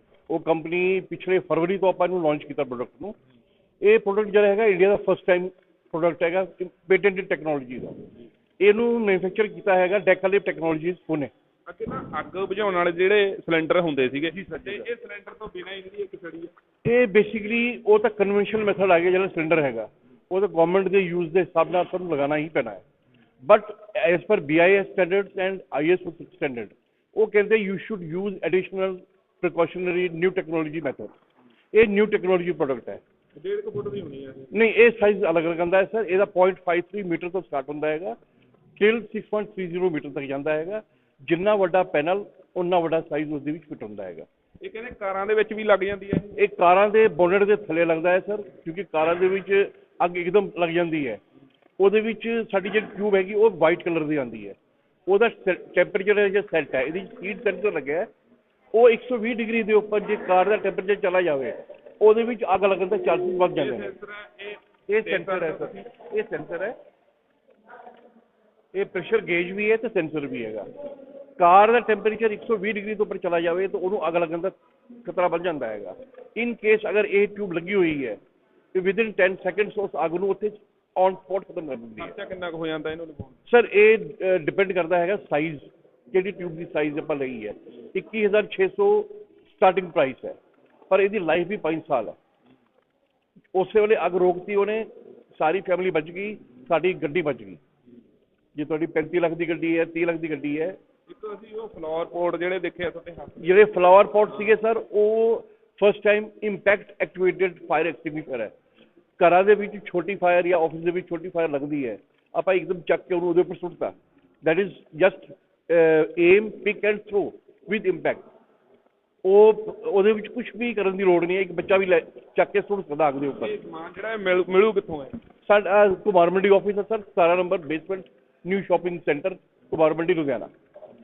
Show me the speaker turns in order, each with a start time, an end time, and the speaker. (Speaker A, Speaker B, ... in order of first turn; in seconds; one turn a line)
Speaker A: 0.3-3.1
Speaker A: 3.8-8.1
Speaker A: 8.6-11.3
Speaker B: 11.7-16.5
Speaker A: 16.8-22.8
Speaker A: 23.4-31.1
Speaker A: 31.7-33.0
Speaker B: 33.4-34.5
Speaker A: 34.5-38.1
Speaker A: 38.8-44.2
Speaker B: 44.6-46.4
Speaker A: 46.4-51.2
Speaker A: 51.8-54.5
Speaker A: 55.1-58.1
Speaker A: 58.7-63.9
Speaker B: 63.5-65.8
Speaker A: 64.9-66.7
Speaker A: 68.7-70.7
Speaker A: 71.4-78.2
Speaker A: 78.7-82.1
Speaker B: 82.0-83.4
Speaker A: 83.5-90.3
Speaker A: 90.9-92.2
Speaker A: 93.5-97.6
Speaker A: 98.5-100.8
Speaker B: 101.1-103.7
Speaker A: 103.4-108.5
Speaker A: 109.2-118.2
Speaker A: 119.2-123.5
Speaker B: 123.4-125.2
Speaker A: 125.4-130.5